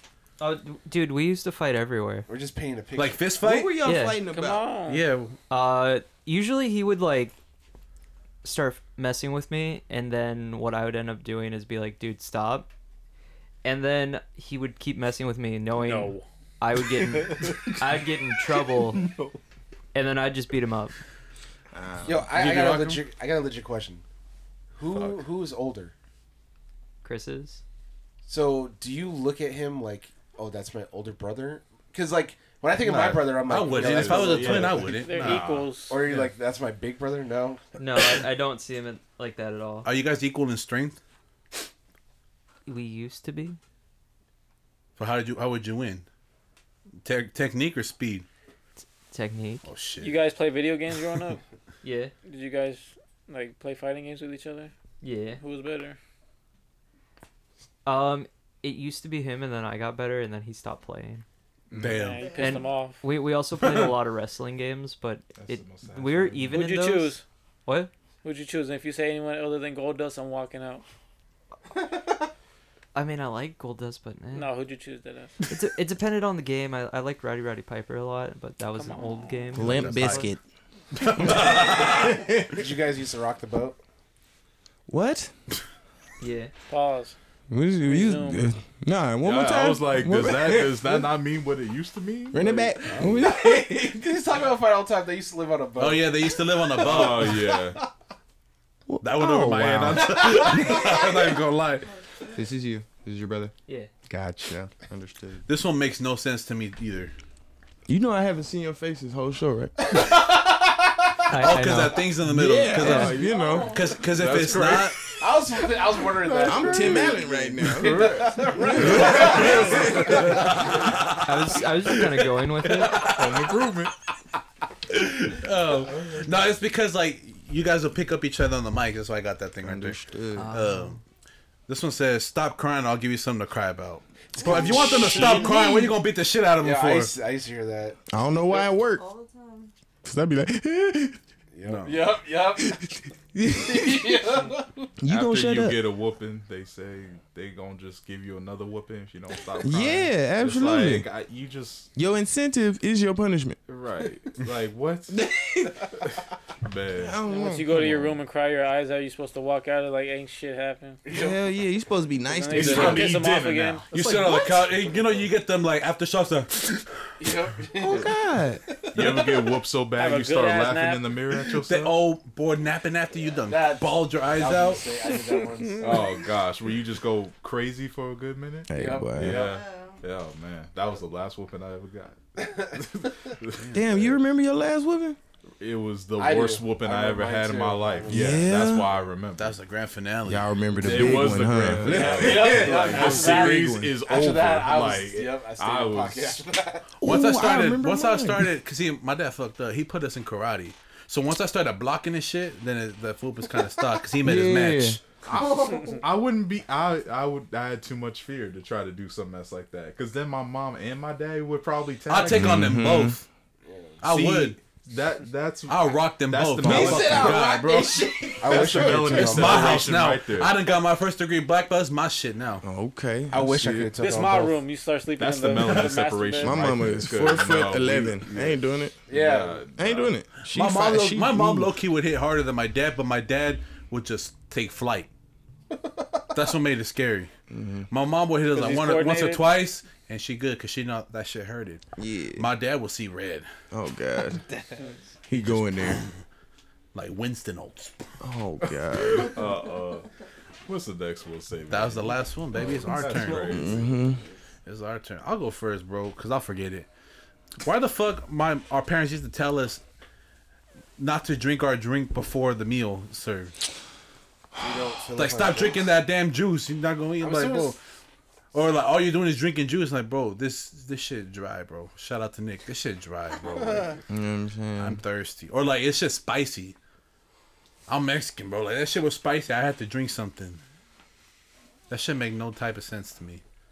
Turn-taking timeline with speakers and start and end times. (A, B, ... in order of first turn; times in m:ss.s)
0:00.4-0:02.3 A
0:02.3-0:03.2 B
0:03.0-0:03.8 C
0:03.4-0:04.6 D
0:03.8-0:04.2 A
0:04.3-0:05.1 E
0:04.9-0:05.4 C
0:05.5-0:07.4 A
0:08.4-0:12.7 A
0:13.6-0:19.0 A
0:15.8-0:16.3 E
0:19.9-0:21.0 A
0:21.7-0:22.3 D
0:22.0-0:24.0 B
0:22.3-0:23.0 C
0:24.8-0:25.9 B
0:24.9-0:25.2 C
0:27.0-0:27.6 A
0:28.3-0:35.2 B
0:32.8-0:36.2 C
0:33.7-0:36.2 F
0:34.9-0:36.0 E
0:35.9-0:37.6 B
0:37.8-0:39.9 A
0:39.8-0:41.0 C
0:42.7-0:43.6 A
0:45.0-0:46.1 C
0:47.0-0:48.3 C
0:48.8-0:49.6 A
0:49.6-0:50.2 C
0:50.0-0:51.4 E
0:51.8-0:52.1 A
0:52.2-0:54.7 E
0:55.0-0:55.4 A
0:55.4-0:56.0 E
0:57.8-1:01.2 A
1:01.7-1:02.0 F
1:01.8-1:02.5 C
1:01.9-1:03.0 E
1:02.4-1:07.9 A
1:03.6-1:03.9 C
1:05.4-1:06.6 F
1:06.5-1:07.2 E
1:08.2-1:10.8 E
1:12.9-1:14.5 A
1:14.3-1:15.4 E
1:15.5-1:20.3 A
1:19.5-1:20.4 D
1:19.6-1:20.4 C
1:21.0-1:22.1 C
1:21.0-1:22.3 D
1:22.6-1:23.8 B
1:24.9-1:25.4 D
1:26.2-1:26.5 A
1:26.7-1:27.2 E
1:27.5-1:31.1 D
1:27.8-1:28.5 E
1:29.2-1:33.3 F
1:32.3-1:34.0 D
1:33.0-1:37.9 B
1:35.8-1:37.4 C
1:36.8-1:37.8 F
1:38.9-1:41.0 D
1:39.0-1:41.9 C
1:39.7-1:40.4 F
1:41.8-1:42.5 G
1:42.3-1:43.5 D
1:44.1-1:45.4 D
1:45.5-1:47.1 C
1:47.9-1:50.1 D
1:51.3-1:52.0 A
1:51.4-1:55.0 C
1:52.3-1:53.8 D
1:52.7-2:00.3 F
1:52.8-1:53.2 A
1:53.2-1:54.0 G
1:55.2-2:00.9 B
1:56.4-2:00.3 D
1:59.0-2:01.9 C
2:01.2-2:03.0 A
2:02.7-2:03.5 C
2:03.0-2:03.9 F
2:04.9-2:11.0 C
2:05.8-2:06.3 F
2:09.6-2:10.5 D
2:10.4-2:11.0 A
2:11.7-2:17.1 C
2:14.3-2:15.8 B
2:14.5-2:15.4 D
2:16.6-2:18.0 B
2:18.1-2:19.1 D
2:18.5-2:19.7 G
2:20.0-2:21.2 D
2:21.5-2:22.8 B
2:21.6-2:22.0 C
2:22.6-2:24.1 D
2:23.5-2:24.9 B
2:25.0-2:25.8 D
2:25.1-2:31.9 F
2:29.6-2:31.1 D
2:32.0-2:33.6 D
2:33.7-2:35.2 F
2:35.1-2:35.8 D
2:36.0-2:37.2 F
2:37.0-2:37.9 D
2:37.3-2:41.0 E
2:37.8-2:38.1 F
2:41.0-2:41.5 B
2:41.1-2:43.2 D
2:42.3-2:43.9 E
2:42.5-2:44.6 F
2:43.9-2:47.1 C
2:47.2-2:48.1 B
2:47.8-2:48.6 D
2:48.7-2:49.6 B
2:48.9-2:52.0 F
2:49.9-2:51.1 E
2:51.5-2:54.9 C
2:53.3-2:56.3 B
2:55.1-2:56.1 E
2:55.8-3:04.0 F
2:58.7-2:59.5 D
2:58.8-2:59.4 B
2:58.9-2:59.3 E
2:59.3-3:00.0 G
3:02.4-3:02.8 B
3:03.5-3:03.9 C
3:03.7-3:05.2 D
3:05.6-3:09.6 F
3:06.2-3:08.6 B
3:08.1-3:08.9 D
3:09.4-3:12.8 C
3:10.3-3:13.9 D
3:10.8-3:16.4 F
3:11.9-3:16.9 B
3:12.5-3:13.6 E
3:17.0-3:25.0 C
3:17.0-3:18.5 D
3:24.2-3:25.0 D
3:25.2-3:32.8 F
3:25.6-3:26.0 E
3:32.1-3:33.2 C
3:32.3-3:33.2 D
3:33.6-3:34.0 B
3:34.0-3:34.6 C
3:34.1-3:37.4 F
3:35.7-3:38.4 C
3:36.6-3:39.4 D
3:38.4-3:39.8 B
3:38.4-3:40.5 F
3:39.2-3:42.6 C
3:42.6-3:43.9 D
3:43.3-3:44.6 B
3:43.4-3:43.8 F
3:44.0-3:46.7 E
3:45.2-3:50.2 F
3:46.4-3:49.0 D
3:49.1-3:49.7 B
3:49.8-3:51.7 D
3:50.5-3:55.1 C
3:55.8-3:56.2 B
3:56.3-3:57.3 C
3:57.5-3:57.9 D
3:57.9-4:01.8 C
3:58.5-3:59.5 E
4:02.0-4:02.5 D
4:02.4-4:03.5 C
4:03.7-4:04.4 D
4:04.5-4:05.0 B
4:05.3-4:06.1 D
4:05.4-4:06.1 C
4:06.9-4:08.0 C
4:08.2-4:09.4 D
4:08.7-4:10.1 F
4:10.7-4:13.9 F
4:11.7-4:13.8 C
4:13.5-4:14.2 D
4:14.7-4:16.9 C
4:17.6-4:19.8 C
4:21.0-4:23.6 C
4:24.6-4:25.9 B
4:25.2-4:27.8 C
4:27.2-4:27.8 B
4:28.5-4:34.0 C
4:33.4-4:34.0 B
4:34.1-4:35.0 D
4:34.8-4:36.8 C
4:37.9-4:40.6 C
4:41.9-4:43.4 C